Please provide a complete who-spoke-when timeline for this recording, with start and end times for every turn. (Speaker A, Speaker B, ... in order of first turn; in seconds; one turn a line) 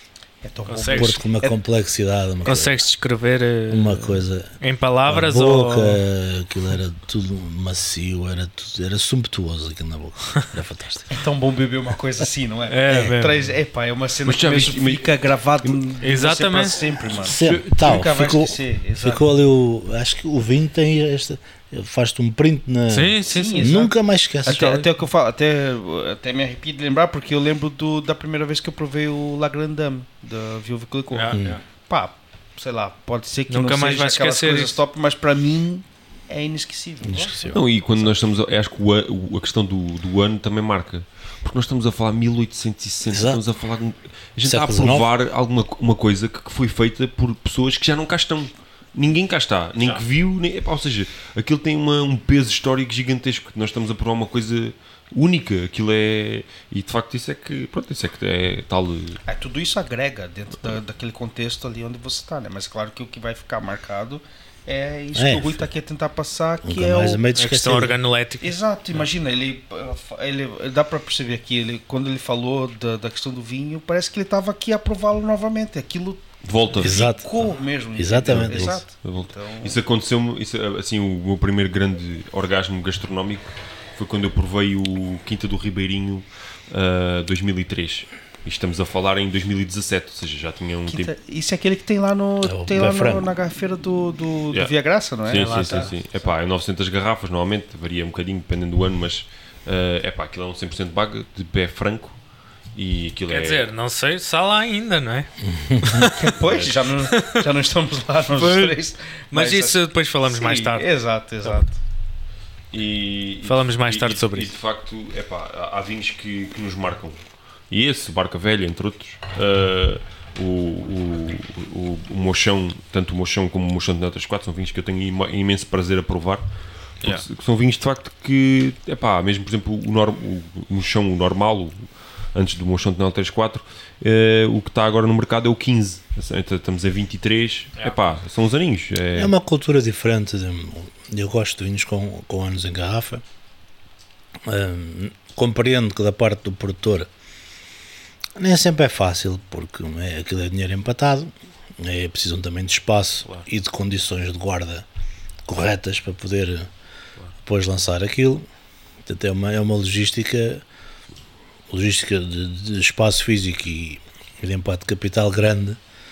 Speaker A: 0.4-1.3
Speaker B: 0.7-1.5
Speaker C: 0.9-2.9
Speaker B: 2.4-6.0
Speaker C: 3.7-11.1
Speaker A: 11.1-19.2
Speaker B: 12.7-13.4
Speaker D: 14.2-15.8
Speaker B: 16.0-16.8
Speaker C: 17.2-24.8
Speaker D: 17.2-17.6
Speaker B: 22.9-23.8
Speaker A: 23.2-23.9
Speaker A: 24.4-38.1
Speaker B: 24.4-24.9
Speaker B: 31.1-31.6
Speaker C: 31.3-31.6
Speaker B: 33.5-34.8
Speaker C: 37.0-37.6
Speaker D: 37.5-59.2
Speaker C: 43.1-43.4
Speaker C: 44.4-45.1
Speaker A: 59.3-67.2
Speaker C: 65.1-65.6
Speaker C: 66.6-68.0
Speaker B: 67.3-68.6
Speaker A: 68.4-79.8
Speaker D: 76.4-77.1
Speaker C: 76.8-78.8
Speaker D: 78.3-91.1
Speaker A: 90.9-95.9
Speaker C: 92.4-93.3
Speaker D: 95.2-102.2
Speaker B: 95.3-95.9
Speaker D: 102.7-103.6
Speaker B: 103.3-106.3
Speaker C: 105.6-106.0
Speaker A: 106.1-111.8
Speaker D: 106.4-106.8
Speaker B: 107.0-107.4
Speaker B: 108.3-108.8
Speaker B: 109.3-110.9
Speaker D: 112.7-126.5
Speaker B: 113.4-114.5
Speaker D: 127.0-139.3
Speaker C: 139.1-143.2
Speaker C: 144.4-147.1
Speaker C: 148.4-154.9
Speaker C: 155.4-156.7
Speaker C: 157.4-158.4
Speaker C: 159.1-160.6
Speaker C: 161.7-165.8